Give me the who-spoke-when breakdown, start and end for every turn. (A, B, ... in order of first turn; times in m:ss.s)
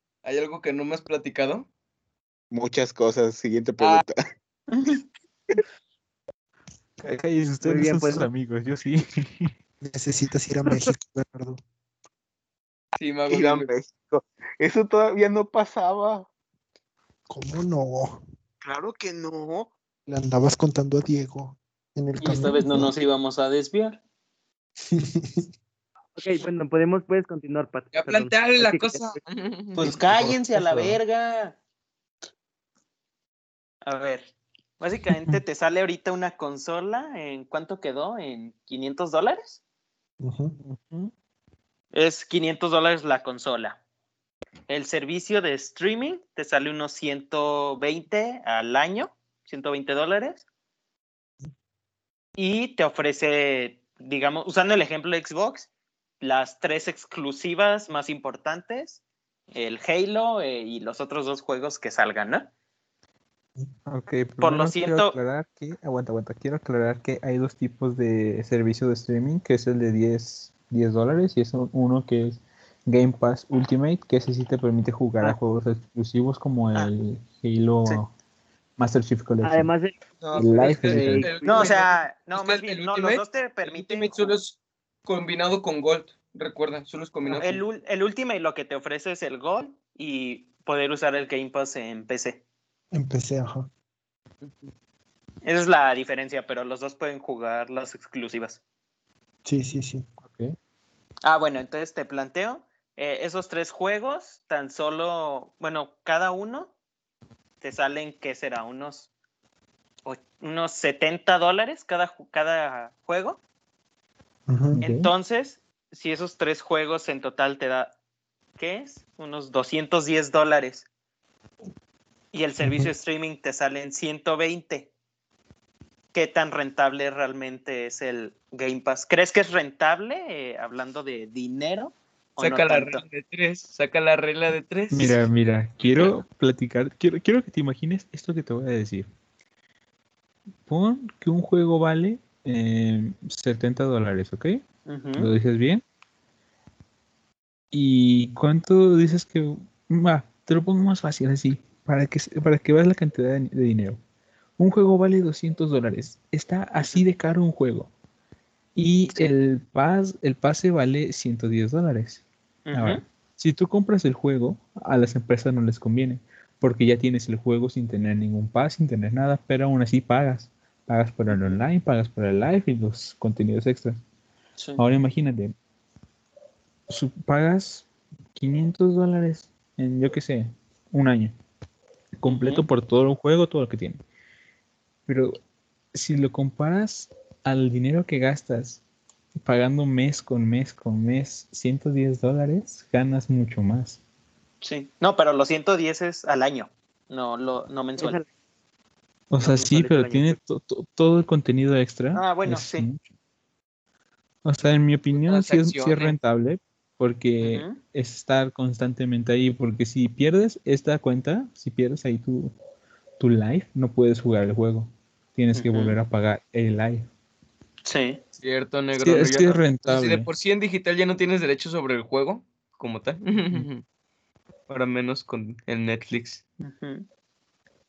0:00.2-0:01.7 A
0:02.5-0:04.2 B
0:03.8-0:04.0 A
0:04.7-0:05.0 C
0:07.0-0:09.5 D
0:07.6-0:08.3 E
0:09.8-0:11.6 F
0:13.0-0:13.7 A
0:13.3-0:16.3 B
0:17.3-0:18.2 F
0:18.6-0:19.7 B
0:20.1-0:23.0 F
0:22.2-0:24.0 C
0:24.9-0:25.5 F
0:26.2-0:29.2 E
0:27.9-0:30.0 A
0:29.8-0:31.6 C
0:30.2-0:30.8 F
0:33.8-0:39.6 C
0:40.2-0:40.6 F
0:40.6-0:41.1 D
0:41.9-0:43.8 C
0:44.7-0:50.4 C
0:52.4-0:55.7 C
0:56.2-0:59.0 C
0:59.5-1:02.5 C
1:03.9-1:18.1 D
1:04.4-1:05.2 C
1:18.8-1:19.7 D
1:19.4-1:21.8 E
1:20.2-1:27.6 A
1:20.4-1:21.4 D
1:21.4-1:24.4 C
1:27.3-1:32.4 C
1:32.9-1:33.7 F
1:34.4-1:34.7 A
1:35.4-1:38.6 C
1:39.4-1:40.1 F
1:40.2-1:40.6 D
1:41.2-1:46.7 C
1:47.6-1:49.1 C
1:50.0-1:53.4 C
1:54.5-1:54.8 F
1:54.8-1:55.1 D
1:54.8-1:58.0 C
1:58.6-2:00.9 C
2:02.3-2:04.9 C
2:06.1-2:13.0 C
2:12.4-2:15.2 A
2:14.9-2:19.1 D
2:15.8-2:16.1 A
2:20.7-2:24.6 D
2:24.9-2:25.3 C
2:25.2-2:25.8 D
2:27.7-2:34.0 D
2:34.6-2:37.9 D
2:38.8-2:54.0 D
2:42.7-2:43.0 C
2:51.3-2:51.6 C
2:54.6-2:54.8 C
2:54.8-2:55.5 D
2:56.9-3:01.3 D
3:02.2-3:04.0 D
3:02.3-3:02.7 C
3:05.1-3:05.4 D
3:05.9-3:08.8 D
3:09.4-3:14.0 D
3:14.6-3:18.2 C
3:18.0-3:18.3 E
3:19.3-3:23.1 D
3:19.4-3:20.4 E
3:22.1-3:22.9 C
3:24.4-3:32.5 D
3:25.1-3:26.2 A
3:27.4-3:27.8 C
3:33.2-3:37.1 D
3:35.5-3:36.0 C
3:37.8-3:38.2 C
3:38.4-3:43.8 A
3:39.0-3:40.3 D
3:44.7-3:46.4 A
3:46.6-3:47.1 C